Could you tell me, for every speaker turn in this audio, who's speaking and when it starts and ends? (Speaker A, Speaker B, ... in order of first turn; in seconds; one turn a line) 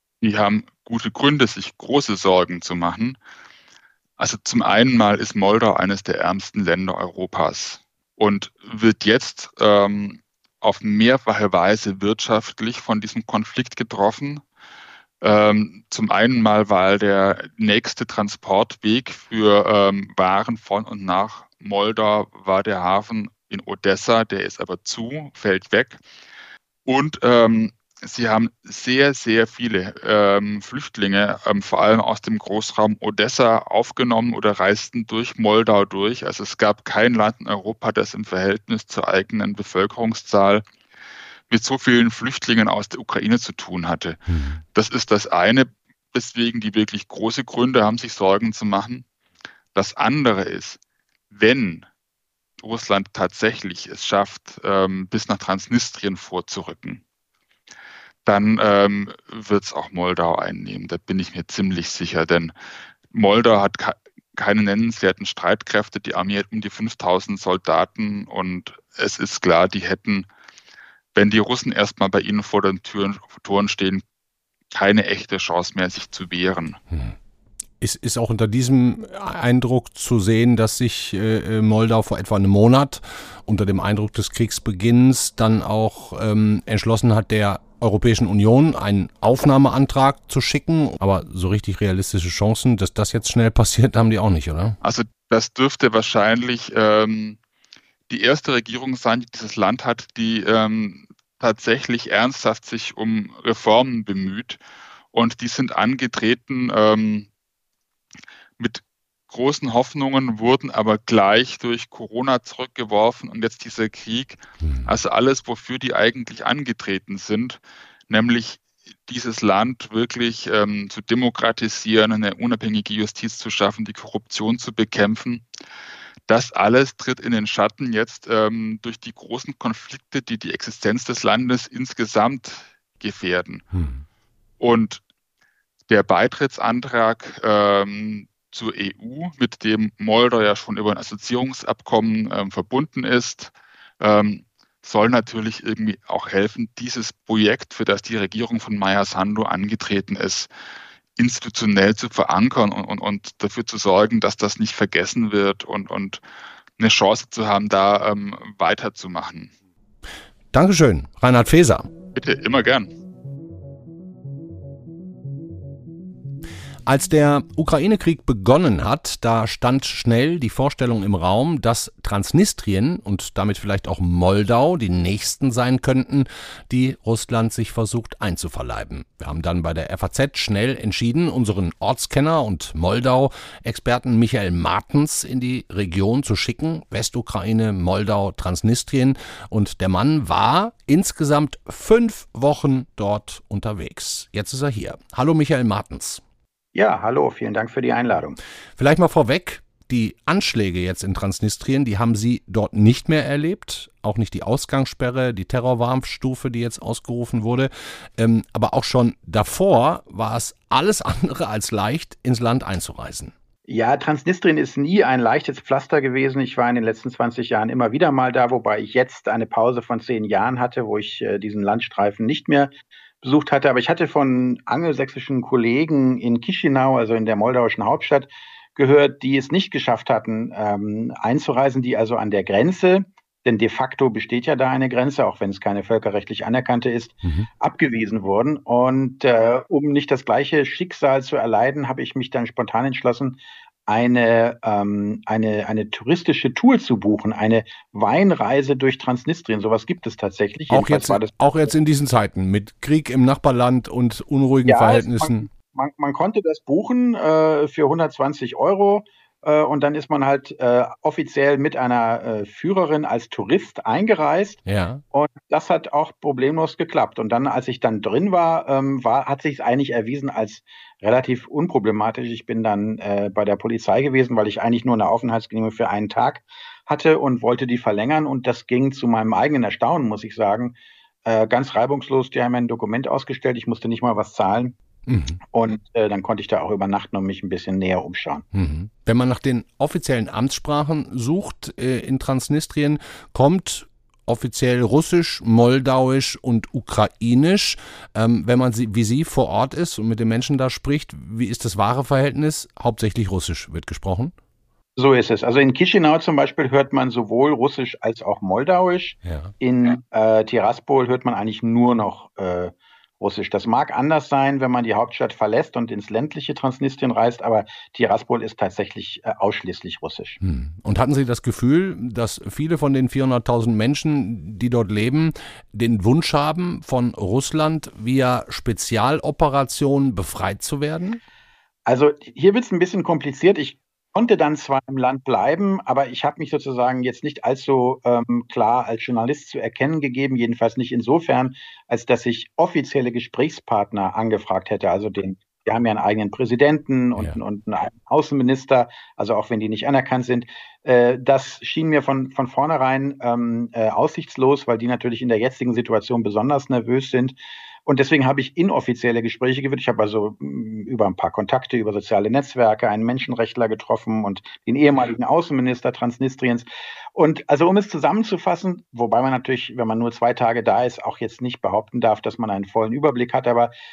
Speaker A: 0.2-3.2
Speaker A: 4.2-14.4
Speaker A: 15.2-26.0
Speaker A: 26.9-40.6
Speaker A: 41.5-44.2
Speaker B: 44.3-44.6
Speaker A: 44.7-49.0
Speaker A: 49.8-50.8
Speaker A: 51.3-51.9
Speaker A: 52.6-57.0
Speaker A: 58.3-62.5
Speaker A: 63.1-70.3
Speaker A: 71.2-74.0
Speaker A: 74.7-76.8
Speaker B: 76.9-77.2
Speaker B: 77.8-94.8
Speaker A: 94.8-97.4
Speaker A: 98.1-104.6
Speaker A: 105.1-107.3
Speaker A: 108.6-125.5
Speaker B: 114.6-114.9
Speaker A: 126.3-133.6
Speaker B: 133.7-134.0
Speaker A: 134.6-135.0
Speaker A: 135.9-150.5
Speaker A: 151.2-156.2
Speaker A: 156.8-159.5
Speaker B: 160.5-161.9
Speaker A: 162.2-162.9
Speaker B: 166.9-196.2
Speaker C: 196.8-198.4
Speaker B: 198.8-213.3
Speaker C: 213.7-251.7
Speaker B: 237.2-237.5
Speaker B: 250.7-255.5
Speaker C: 254.7-264.6
Speaker B: 264.7-265.0
Speaker C: 265.1-284.8
Speaker B: 285.1-285.4
Speaker C: 285.5-288.4
Speaker B: 288.5-304.3
Speaker C: 305.0-320.4
Speaker B: 309.2-309.5
Speaker B: 320.4-331.2
Speaker C: 331.9-373.7